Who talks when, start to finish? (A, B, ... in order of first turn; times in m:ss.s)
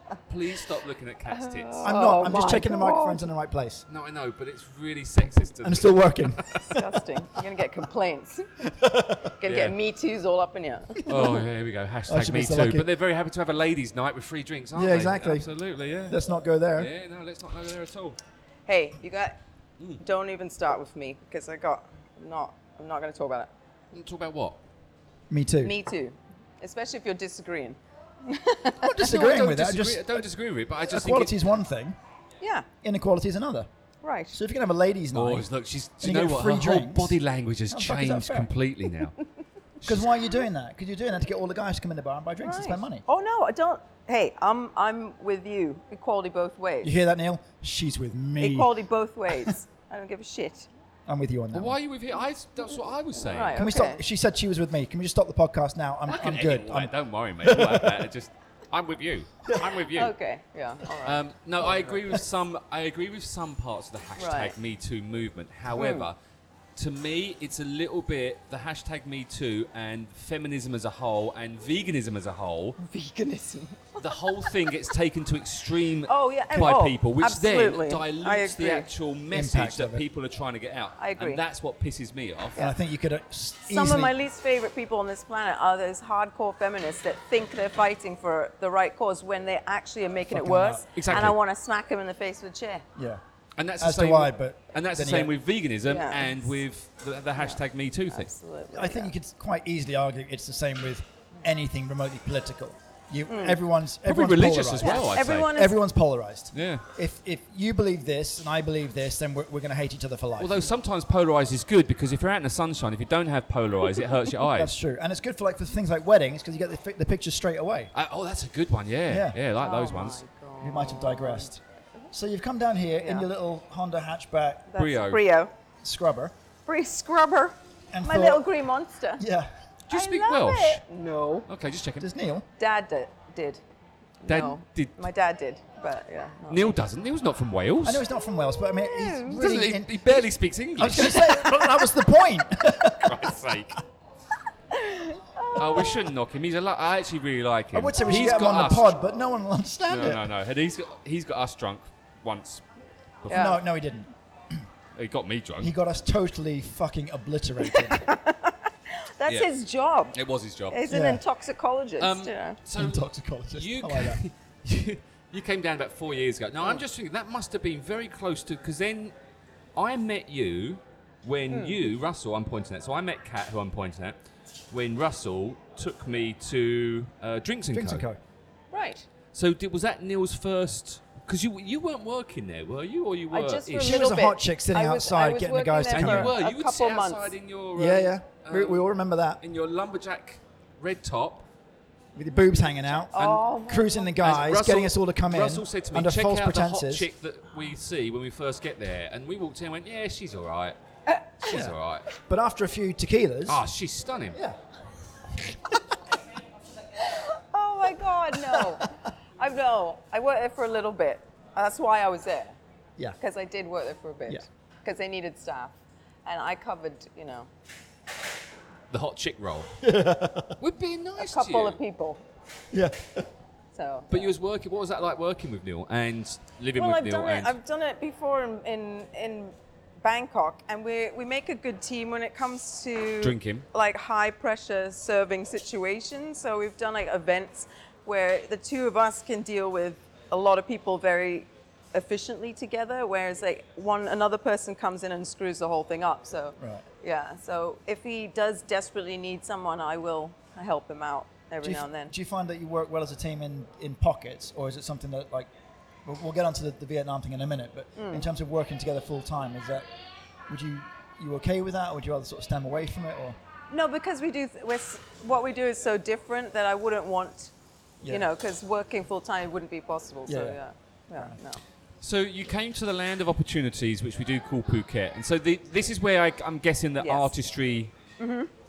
0:00.3-0:01.9 A
0:01.3-0:03.3 B
0:01.8-0:03.8 C
0:03.9-0:06.8 A
0:05.6-0:06.4 C
0:06.5-0:08.7 B
0:08.6-0:09.3 C
0:09.4-0:11.1 B
0:09.4-0:09.8 A
0:11.0-0:11.4 C
0:11.1-0:16.2 A
0:12.1-0:12.9 C
0:14.7-0:15.5 C
0:16.1-0:16.9 C
0:16.8-0:18.2 A
0:18.7-0:19.4 B
0:20.0-0:23.5 B
0:23.9-0:24.6 A
0:25.3-0:25.7 C
0:25.6-0:29.0 B
0:28.8-0:30.3 C
0:29.0-0:31.4 A
0:30.8-0:32.0 C
0:32.4-0:32.7 B
0:32.8-0:33.7 C
0:34.0-0:34.4 B
0:34.3-0:35.5 C
0:35.1-0:39.2 A
0:36.0-0:37.2 C
0:37.7-0:38.5 C
0:39.8-0:40.1 A
0:39.8-0:43.0 C
0:42.4-0:46.9 B
0:46.8-0:48.7 C
0:48.4-0:50.7 B
0:51.1-0:51.8 C
0:51.5-0:53.6 A
0:53.1-0:54.0 B
0:53.5-0:58.1 C
0:56.1-1:00.1 A
0:59.4-0:59.8 C
0:59.9-1:01.2 B
1:01.0-1:06.2 A
1:01.6-1:02.2 C
1:04.2-1:04.6 B
1:05.7-1:06.1 B
1:06.8-1:12.8 A
1:12.8-1:14.7 B
1:14.0-1:22.6 A
1:16.1-1:18.9 B
1:19.3-1:20.0 C
1:21.0-1:21.4 B
1:22.6-1:24.1 C
1:23.7-1:32.8 B
1:30.3-1:31.2 C
1:31.0-1:31.4 A
1:33.0-1:33.2 C
1:33.6-1:38.3 A
1:33.8-1:35.3 C
1:35.8-1:36.5 B
1:37.4-1:39.1 B
1:38.7-1:50.6 C
1:43.3-1:43.6 B
1:44.0-1:45.5 A
1:44.8-1:45.8 B
1:46.5-1:46.8 A
1:50.4-1:54.7 A
1:54.4-1:57.9 C
1:57.9-2:00.2 A
1:59.1-1:59.4 C
1:59.6-2:02.1 B
2:00.6-2:01.6 C
2:02.1-2:04.7 C
2:04.7-2:05.5 B
2:04.8-2:05.2 A
2:05.8-2:06.3 C
2:06.7-2:09.2 B
2:07.9-2:08.5 C
2:09.2-2:09.5 C
2:09.9-2:10.8 A
2:09.9-2:11.5 B
2:11.5-2:12.1 A
2:12.0-2:12.4 C
2:12.6-2:13.6 B
2:14.2-2:16.8 B
2:14.3-2:15.0 A
2:16.5-2:18.0 A
2:17.8-2:20.2 C
2:18.6-2:19.5 B
2:19.3-2:21.6 A
2:20.8-2:23.4 C
2:23.0-2:23.8 A
2:24.7-2:26.1 B
2:25.5-2:28.9 A
2:27.7-2:30.3 C
2:28.0-2:29.0 B
2:29.8-2:32.6 A
2:33.3-2:33.6 B
2:33.3-2:34.1 C
2:35.0-2:35.7 A
2:35.6-2:38.0 C
2:37.7-2:40.2 B
2:40.1-2:40.8 A
2:40.7-2:42.6 B
2:40.9-2:41.2 C
2:42.0-2:49.1 A
2:42.7-2:44.2 C
2:49.7-2:54.2 A
2:51.5-2:51.8 B
2:54.7-2:58.0 A
2:57.7-2:58.2 C
2:58.7-2:59.1 B
2:59.3-3:04.0 A
3:03.3-3:07.3 B
3:03.8-3:06.3 C
3:05.9-3:08.8 A
3:07.7-3:09.4 C
3:09.4-3:11.4 A
3:12.1-3:17.1 C
3:13.1-3:14.1 B
3:14.2-3:20.8 A
3:21.1-3:21.3 B
3:21.4-3:22.1 A
3:21.5-3:23.6 C
3:23.5-3:24.4 A
3:24.3-3:24.6 C
3:27.0-3:32.6 B
3:28.4-3:28.9 C
3:33.2-3:37.5 B
3:38.9-3:39.7 A
3:39.8-3:40.6 C
3:40.6-3:41.8 A
3:41.2-3:42.2 B
3:42.7-3:43.3 C
3:43.7-3:44.3 B
3:44.1-3:47.5 A
3:46.7-4:12.1 B
3:53.2-3:53.6 A
4:11.6-4:15.5 C
4:16.0-4:19.9 C
4:18.0-4:18.3 B
4:20.5-4:23.4 C
4:23.7-4:27.5 B
4:28.1-4:31.6 B
4:30.3-4:30.6 C
4:32.0-4:37.9 A
4:37.0-4:37.3 B
4:38.2-4:38.5 B